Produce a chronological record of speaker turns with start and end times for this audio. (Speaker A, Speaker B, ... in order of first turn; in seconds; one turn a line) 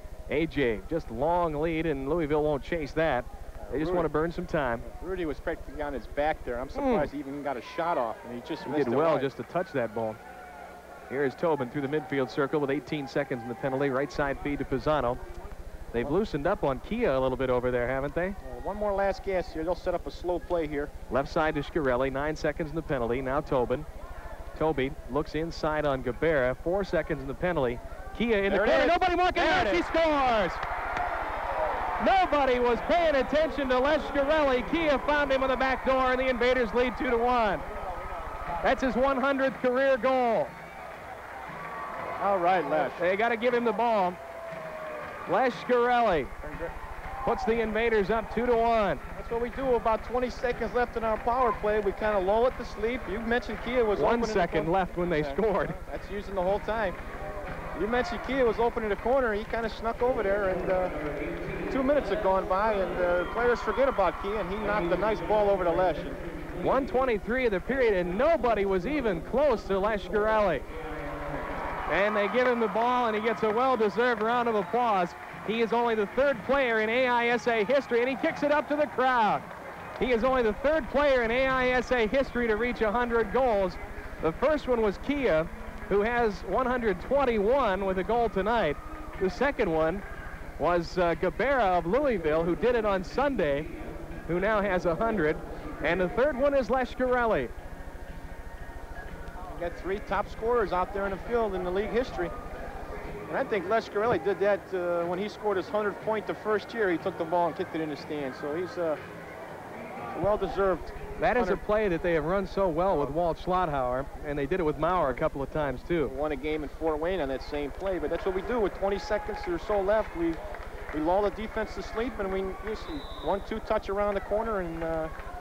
Speaker A: 0.3-4.8
Speaker B: 3.7-4.1
Speaker B: 4.8-9.3
Speaker A: 6.7-7.1
Speaker A: 8.6-10.2
Speaker A: 11.1-15.2
Speaker A: 15.9-18.4
Speaker B: 18.4-20.9
Speaker A: 21.1-23.9
Speaker A: 24.5-30.6
Speaker B: 28.5-29.9
Speaker A: 32.0-37.6
Speaker A: 38.6-40.5
Speaker B: 42.2-43.0
Speaker A: 43.0-44.2
Speaker A: 45.3-46.3
Speaker B: 46.4-46.7
Speaker A: 47.2-49.0
Speaker B: 49.1-57.0
Speaker A: 54.0-55.8
Speaker B: 57.7-61.0
Speaker B: 61.7-66.2
Speaker A: 66.6-70.6
Speaker A: 71.9-79.4
Speaker A: 80.0-90.0
Speaker A: 90.6-93.7
Speaker A: 94.3-97.5
Speaker B: 99.5-102.3
Speaker B: 103.3-109.0
Speaker B: 110.1-111.6
Speaker A: 111.2-116.1
Speaker B: 116.0-120.4
Speaker B: 120.9-125.1